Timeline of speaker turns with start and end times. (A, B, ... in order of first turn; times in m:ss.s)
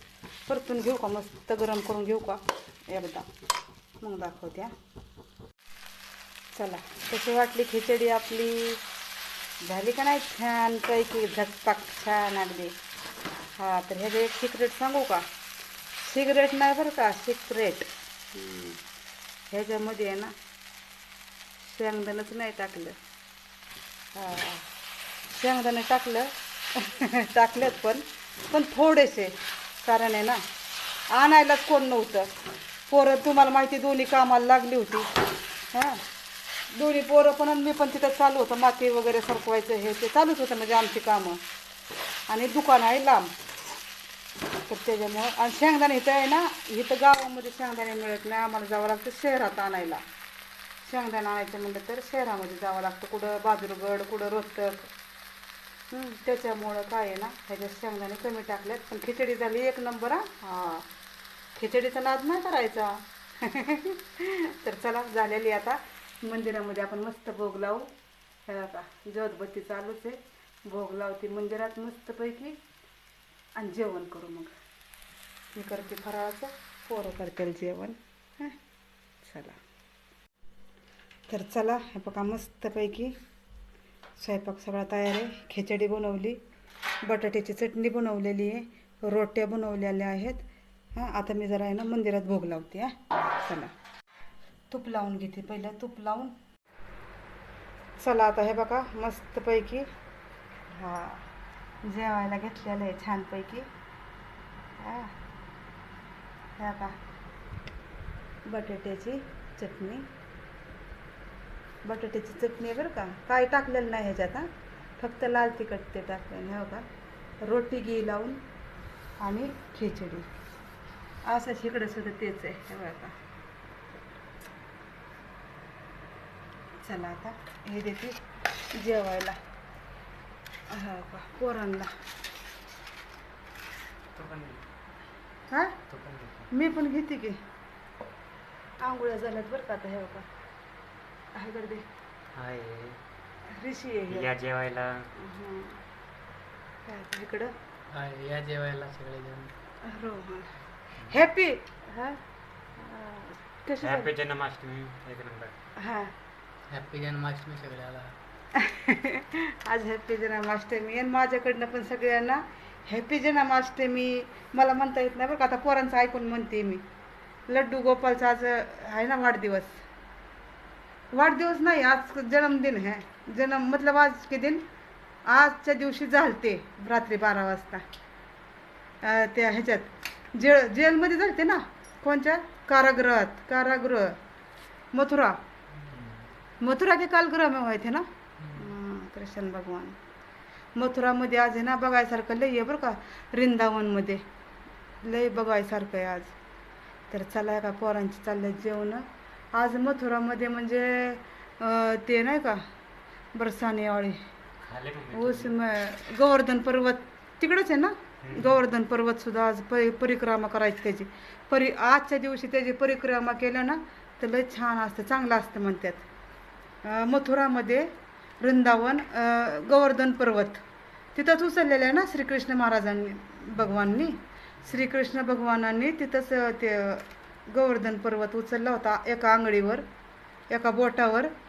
0:00.5-0:03.3 A
0:04.0-0:04.7 A
0:06.5-0:08.8 A
0:09.6-0:12.8 A
0:13.6-0:15.2 A
0:16.0-0:18.8 A
0:19.5-0:20.3 A
0:21.6-0:23.0 A
0:24.1-0:24.6 A
0:25.3-0:30.4 A
0:31.1-0:32.3 A
0:32.9-0:35.1 A
0:35.7-0:36.0 A
0:36.7-0:41.4 A
0:42.3-0:43.3 A
0:44.7-0:50.0 A
0:50.8-0:54.9 A
0:55.9-1:00.9 A
1:01.6-1:07.9 A
1:08.5-1:12.6 A
1:13.6-1:14.5 A
1:15.5-1:18.6 A
1:19.2-1:19.6 A
1:21.3-1:23.1 A
1:24.2-1:26.4 A
1:27.0-1:33.7 A
1:34.7-1:36.3 A
1:38.0-1:39.9 A
1:40.7-1:41.3 A
1:41.8-1:43.7 A
1:44.8-1:45.1 A
1:46.6-1:47.0 A
1:48.5-1:50.1 A
1:51.8-1:56.8 A
1:57.4-1:58.4 A
1:59.2-2:00.3 A
2:01.2-2:03.2 A
2:06.8-2:08.2 A
2:08.8-2:09.4 A
2:10.7-2:11.9 A
2:14.1-2:14.6 B
2:15.5-2:15.8 A
2:15.9-2:16.5 B
2:16.5-2:17.4 A
2:18.8-2:20.3 A
2:21.3-2:21.9 A
2:22.4-2:23.0 B
2:23.5-2:24.3 A
2:24.1-2:25.1 B
2:25.2-2:25.8 A
2:26.9-2:27.6 A
2:27.9-2:29.5 C
2:29.8-2:32.2 A
2:32.8-2:34.1 A
2:33.8-2:35.6 B
2:35.8-2:36.1 A
2:36.7-2:38.2 C
2:38.5-2:46.8 A
2:47.5-2:49.8 A
2:51.1-2:54.6 A
2:55.2-2:57.8 A
2:59.0-3:04.2 A
3:04.9-3:05.4 A
3:05.8-3:06.3 B
3:06.6-3:10.0 A
3:10.8-3:14.2 A
3:15.0-3:16.4 A
3:17.1-3:22.6 A
3:23.4-3:24.2 A
3:24.6-3:25.5 B
3:25.1-3:36.1 A
3:28.2-3:28.6 B
3:36.8-3:40.6 A
3:41.1-3:49.8 A
3:50.5-3:51.3 A